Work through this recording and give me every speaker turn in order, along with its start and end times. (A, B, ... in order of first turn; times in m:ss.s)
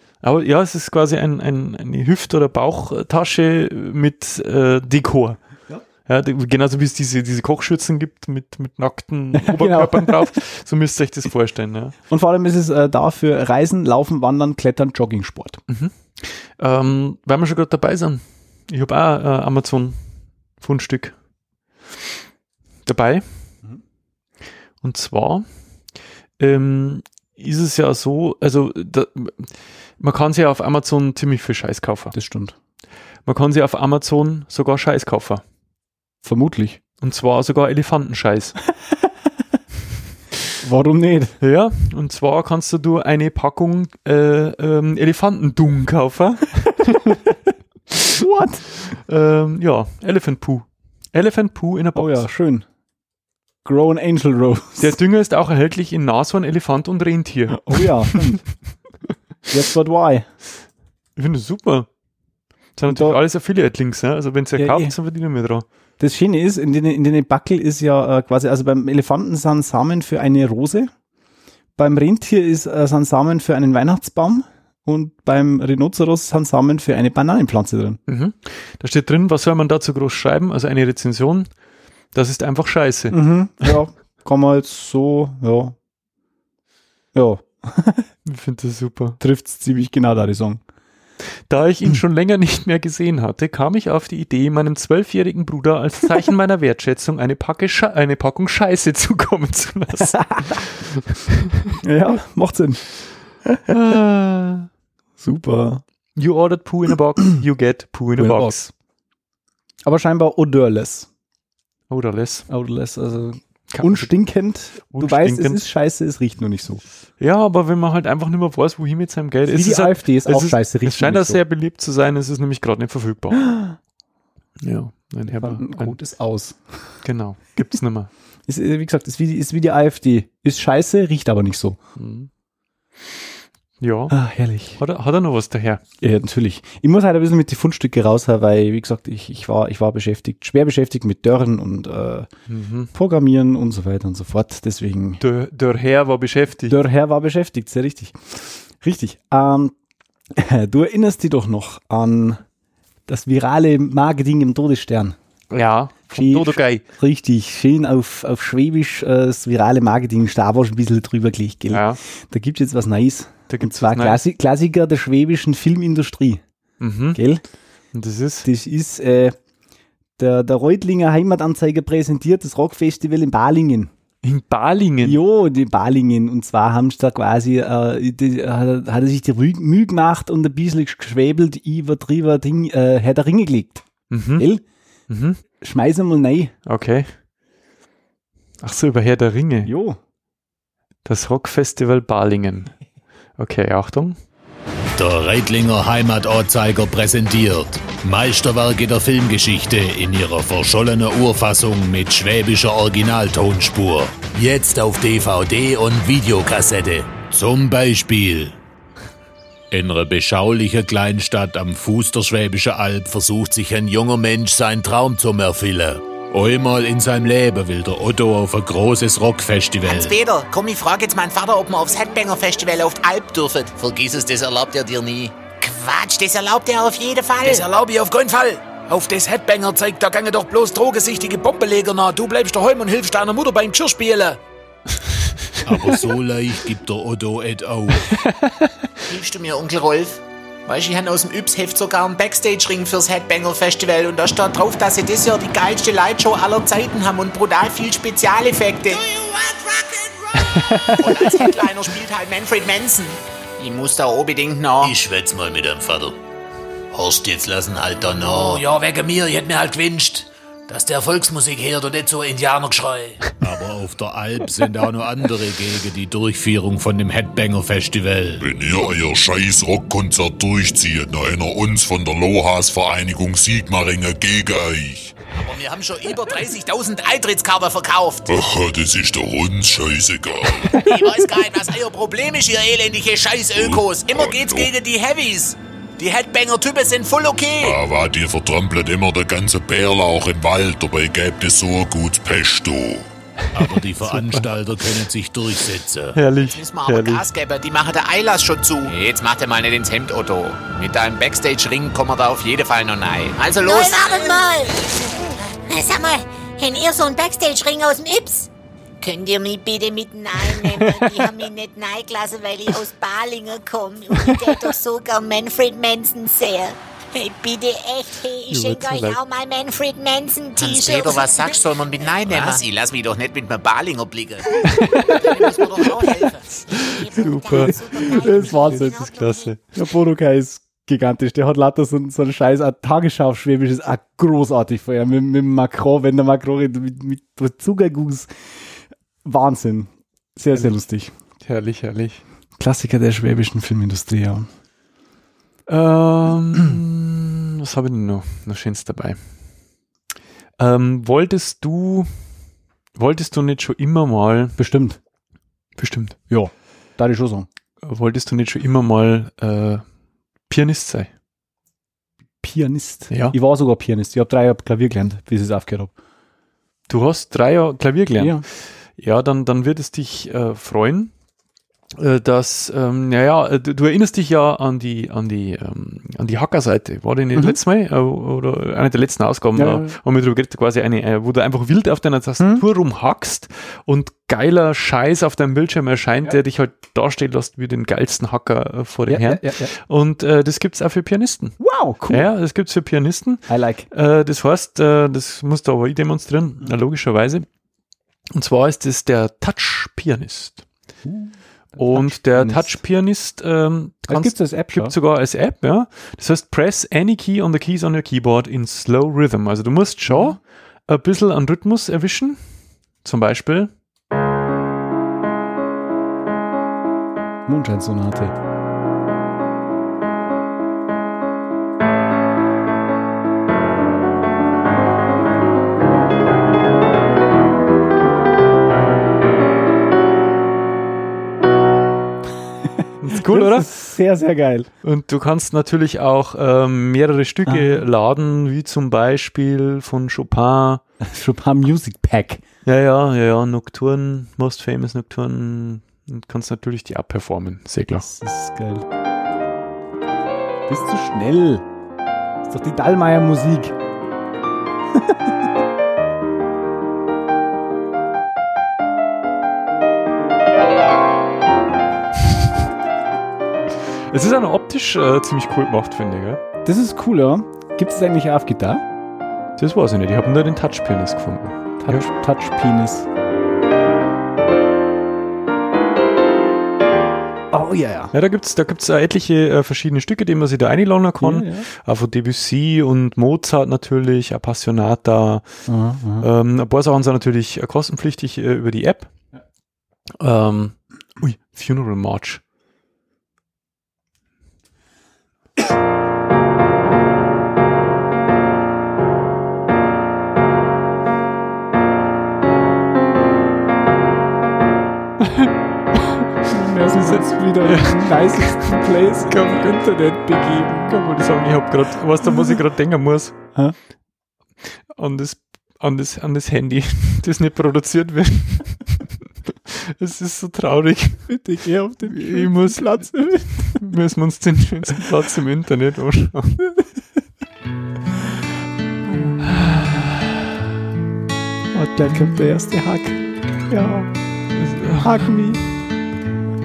0:00.2-0:05.4 A
0:06.0-0:11.9 A
0:09.3-0:10.3 B
0:12.1-0:15.6 B
0:15.7-0:20.0 A
0:20.6-0:21.1 A
0:22.8-0:23.2 A
0:24.8-0:25.4 A
0:26.4-0:32.1 A
0:32.1-0:32.6 B
0:33.2-0:35.4 A
0:36.2-0:36.8 B
0:37.0-0:38.6 A
0:40.6-0:41.4 B
0:41.4-0:47.2 A
0:48.2-0:48.6 B
0:48.8-0:52.2 A
0:51.9-0:52.6 B
0:53.6-0:55.0 B
0:54.8-0:58.3 A
0:57.6-0:58.4 B
0:59.5-1:00.3 B
1:01.2-1:01.9 A
1:02.8-1:05.6 A
1:02.9-1:03.2 B
1:04.5-1:04.9 B
1:06.0-1:10.9 B
1:11.8-1:18.0 B
1:18.1-1:21.5 A
1:22.1-1:23.7 A
1:23.1-1:25.7 B
1:27.1-1:28.1 B
1:28.2-1:29.2 A
1:29.2-1:30.6 B
1:31.5-1:41.8 A
1:40.2-1:40.6 B
1:41.8-1:42.8 B
1:43.7-1:44.7 A
1:45.2-1:45.8 B
1:46.2-1:48.7 A
1:48.2-1:48.7 B
1:49.8-1:51.1 B
1:51.9-1:52.5 A
1:52.5-1:56.8 B
1:53.7-1:54.1 A
1:54.9-1:55.6 A
1:57.2-2:03.5 A
1:59.5-2:01.4 B
2:03.4-2:03.8 B
2:04.6-2:06.0 A
2:05.3-2:06.6 B
2:07.0-2:08.1 A
2:08.5-2:11.8 B
2:12.0-2:12.3 A
2:13.8-2:14.2 A
2:14.1-2:14.8 B
2:14.8-2:15.8 A
2:16.0-2:22.3 B
2:22.5-2:22.9 A
2:22.9-2:25.2 B
2:25.2-2:26.8 A
2:26.7-2:29.7 B
2:30.3-2:32.4 B
2:33.1-2:35.2 B
2:35.5-2:36.8 A
2:36.1-2:46.4 B
2:41.7-2:42.0 A
2:43.5-2:44.2 A
2:46.8-2:47.2 A
2:47.1-2:47.4 B
2:47.9-2:48.5 A
2:48.4-2:49.3 B
2:50.2-2:53.9 B
2:54.2-2:55.2 A
2:55.0-3:04.6 B
3:04.1-3:04.5 A
3:05.1-3:05.4 A
3:05.6-3:06.5 B
3:06.6-3:07.1 A
3:08.6-3:09.7 A
3:09.6-3:10.0 B
3:11.0-3:12.7 A
3:13.4-3:14.2 A
3:15.0-3:28.6 C
3:29.7-3:40.2 C
3:39.8-3:43.8 D
3:43.8-3:44.6 C
3:44.7-3:47.6 D
3:47.4-3:54.4 E
3:55.6-3:58.1 C
3:58.1-3:58.7 A
3:59.1-4:09.0 D
4:11.0-4:14.9 D
4:14.8-4:16.2 C
4:16.9-4:28.4 C
4:28.4-4:35.2 F
4:35.4-4:36.0 C
4:35.5-4:38.3 D
4:38.3-4:41.0 F
4:40.6-4:47.8 D
4:43.5-4:44.7 F
4:47.6-4:53.1 F
4:53.5-4:56.2 C
4:54.0-4:54.4 A
4:56.1-4:57.3 A
4:56.4-5:04.4 D
5:03.6-5:04.9 G
5:05.7-5:08.5 G
5:09.0-5:21.6 G
5:10.5-5:11.2 A
5:18.5-5:19.2 A
5:20.6-5:24.4 D
5:22.3-5:22.6 G
5:24.6-5:25.3 A
5:24.7-5:25.1 B
5:25.0-5:26.4 D
5:26.6-5:29.6 A
5:26.7-5:29.5 G
5:27.4-5:29.1 B
5:29.7-5:38.3 B
5:39.2-5:41.1 B
5:41.4-5:42.2 A
5:42.6-5:44.5 B
5:45.7-5:49.2 A
5:50.6-5:52.1 A
5:53.0-5:54.6 A
5:54.6-5:55.0 B
5:55.8-5:56.2 A
5:56.3-5:57.5 B
5:57.8-5:59.8 A
6:00.5-6:01.1 A
6:02.4-6:05.9 B
6:03.1-6:03.3 A
6:06.9-6:08.4 A
6:08.2-6:08.4 B
6:09.0-6:11.1 A
6:12.0-6:31.6 A
6:19.6-6:19.9 B
6:22.4-6:22.6 B
6:29.1-6:29.7 B
6:31.6-6:32.3 B
6:32.1-6:37.4 A
6:33.5-6:33.9 B
6:38.3-6:40.6 A
6:41.0-6:42.8 B
6:41.8-6:52.4 A
6:44.1-6:44.9 B
6:50.1-6:50.4 B
6:53.0-6:53.7 A
6:57.4-6:58.3 B
7:13.0-7:13.7 A
7:13.1-7:14.7 B
7:14.8-7:20.8 A
7:17.4-7:17.8 B
7:21.0-7:22.4 B
7:22.6-7:28.1 A
7:28.0-7:28.8 B
7:30.7-7:31.6 B
7:32.4-7:33.8 B
7:34.9-7:35.3 B
7:44.1-7:46.4 A
7:46.6-7:48.8 B
7:49.6-7:52.1 A
7:51.8-7:53.1 B
7:57.5-7:58.1 B
7:58.1-8:05.5 A
8:01.2-8:01.7 B
8:05.7-8:06.3 B
8:06.2-8:09.1 A
8:10.2-8:12.4 A
8:25.2-8:26.2 A
8:26.5-8:30.9 B
8:27.0-8:29.8 A
8:30.9-8:33.4 A
8:32.2-8:32.6 B
8:34.9-8:39.1 A
8:39.7-8:41.3 A
8:41.3-8:43.8 B
8:42.0-8:46.6 A
8:49.4-8:50.1 A
8:51.7-8:54.1 B
8:54.5-8:55.2 A
8:55.0-8:55.6 B